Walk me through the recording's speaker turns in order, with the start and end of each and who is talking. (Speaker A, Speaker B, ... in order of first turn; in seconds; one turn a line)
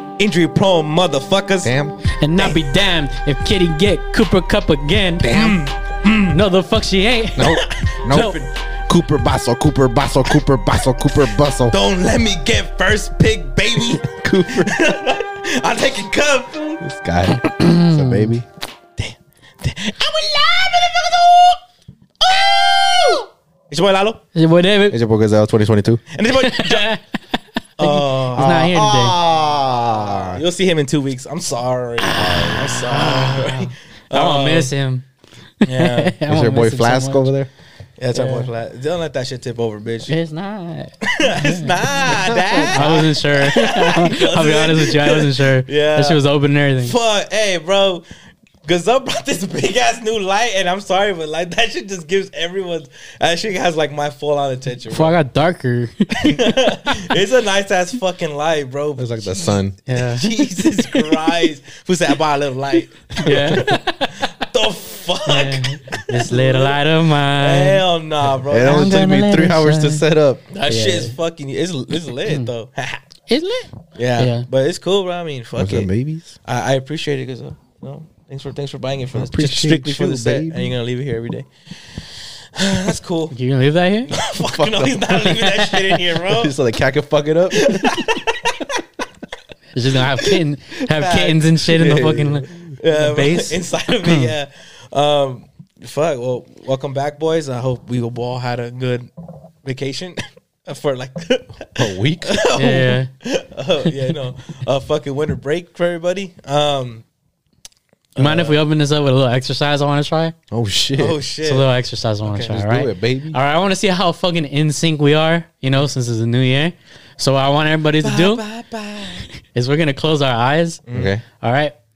Speaker A: 0.2-1.7
Speaker B: 1.6-2.0
Speaker C: 2.2-5.3
Speaker B: 5.2-5.6
Speaker A: 5.3-6.4
Speaker C: 6.3-7.6
Speaker B: 7.3-11.8
Speaker A: 7.4-8.5
Speaker A: 11.7-16.8
Speaker B: 13.9-14.9
Speaker B: 16.8-18.4
Speaker C: 17.4-18.3
Speaker A: 19.0-21.6
Speaker A: 22.2-24.2
Speaker C: 24.3-25.0
Speaker B: 24.9-26.0
Speaker A: 26.1-26.9
Speaker C: 26.4-27.0
Speaker A: 27.8-28.7
Speaker C: 27.8-29.2
Speaker B: 28.3-30.4
Speaker A: 29.5-34.7
Speaker C: 32.0-35.1
Speaker B: 32.1-32.7
Speaker A: 35.6-36.1
Speaker C: 35.6-37.3
Speaker B: 36.3-37.5
Speaker A: 38.0-40.1
Speaker C: 38.1-38.5
Speaker C: 40.1-46.9
Speaker A: 41.1-46.2
Speaker B: 42.3-42.9
Speaker A: 46.8-48.0
Speaker A: 48.6-55.2
Speaker C: 54.9-56.5
Speaker A: 56.2-63.8
Speaker B: 59.0-59.8
Speaker C: 59.9-61.0
Speaker C: 63.2-64.3
Speaker A: 64.3-66.8
Speaker C: 65.3-67.8
Speaker A: 67.4-68.8
Speaker B: 68.5-70.4
Speaker C: 68.6-70.0
Speaker A: 70.5-73.0
Speaker C: 70.7-71.1
Speaker C: 73.3-74.5
Speaker A: 74.0-75.9
Speaker B: 75.6-76.3
Speaker A: 76.4-83.3
Speaker B: 79.1-80.7
Speaker C: 83.3-84.1
Speaker A: 84.1-86.5
Speaker B: 84.4-85.0
Speaker C: 85.3-85.9
Speaker B: 86.3-88.0
Speaker A: 87.5-88.7
Speaker C: 89.7-94.3
Speaker A: 90.9-92.1
Speaker B: 91.7-92.5
Speaker A: 92.8-99.1
Speaker A: 99.6-107.0
Speaker B: 101.8-102.3
Speaker C: 102.6-103.1
Speaker C: 108.2-110.3
Speaker A: 108.2-108.6
Speaker B: 110.5-111.2
Speaker A: 111.0-111.7
Speaker C: 111.4-118.4
Speaker A: 112.3-112.5
Speaker B: 112.5-113.4
Speaker A: 118.0-119.3
Speaker C: 119.5-120.8
Speaker A: 120.9-121.1
Speaker B: 120.9-121.2
Speaker C: 121.4-121.7